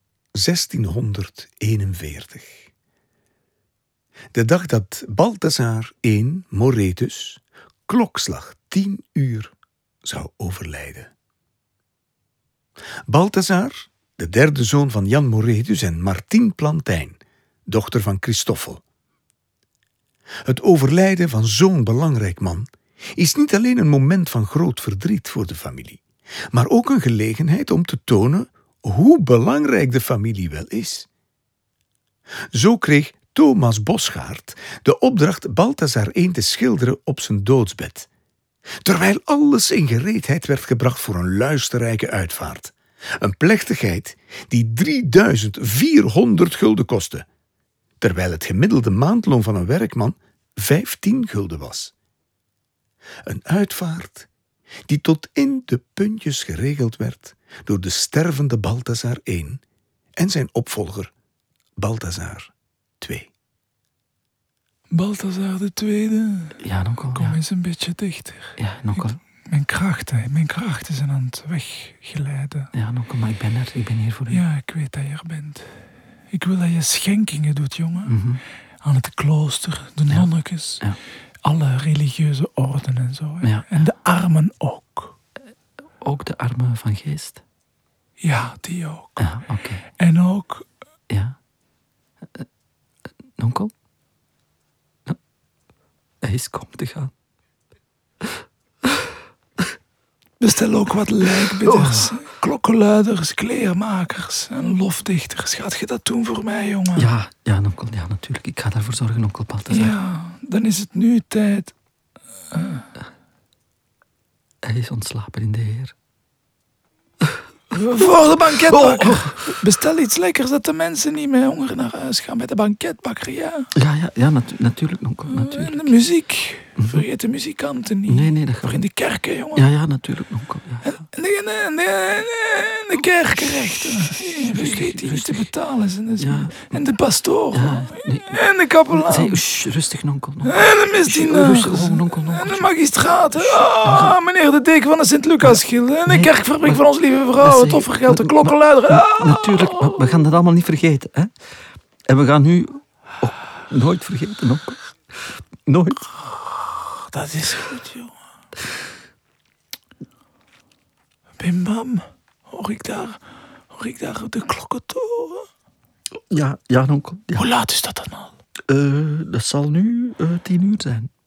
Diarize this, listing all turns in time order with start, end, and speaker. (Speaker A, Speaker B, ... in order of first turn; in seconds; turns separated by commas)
Speaker A: 0.3-2.7, Speaker A: 4.3-9.5, Speaker A: 10.0-11.1, Speaker A: 13.1-18.8, Speaker A: 20.4-31.1, Speaker A: 32.5-38.1, Speaker A: 38.8-47.2, Speaker A: 48.0-51.9, Speaker A: 53.2-54.3, Speaker A: 54.9-59.6, Speaker A: 60.2-61.1, Speaker A: 61.8-63.3, Speaker B: 64.9-66.6, Speaker C: 66.6-67.4, Speaker B: 67.2-72.7, Speaker C: 68.6-69.2, Speaker C: 72.7-74.4, Speaker B: 74.3-75.7, Speaker B: 76.3-78.2, Speaker C: 78.1-78.4, Speaker B: 78.8-80.9, Speaker C: 80.1-81.0, Speaker B: 81.4-85.1, Speaker C: 83.4-83.7, Speaker C: 86.0-87.4, Speaker B: 88.2-89.3, Speaker C: 89.2-89.8, Speaker B: 90.0-90.7, Speaker C: 91.1-91.3, Speaker C: 93.4-93.7, Speaker C: 96.2-97.1, Speaker B: 100.4-107.1, Speaker C: 101.6-102.2, Speaker C: 106.9-109.9, Speaker B: 109.7-111.7, Speaker B: 112.5-112.8, Speaker C: 114.6-115.9, Speaker B: 117.7-123.7, Speaker C: 118.6-119.5, Speaker C: 123.7-125.9, Speaker B: 125.3-129.7, Speaker C: 126.8-127.0, Speaker C: 128.1-128.8, Speaker C: 129.5-131.0, Speaker B: 130.8-139.4, Speaker C: 134.4-135.5, Speaker C: 136.2-136.8, Speaker C: 137.5-142.7, Speaker B: 140.4-150.2, Speaker C: 143.4-144.2, Speaker C: 145.4-146.8, Speaker C: 147.4-151.3, Speaker C: 152.1-154.8, Speaker C: 155.7-156.1, Speaker B: 157.0-158.1, Speaker B: 161.4-163.2, Speaker B: 163.7-165.5, Speaker C: 166.3-167.5, Speaker B: 167.3-168.3, Speaker C: 168.7-171.1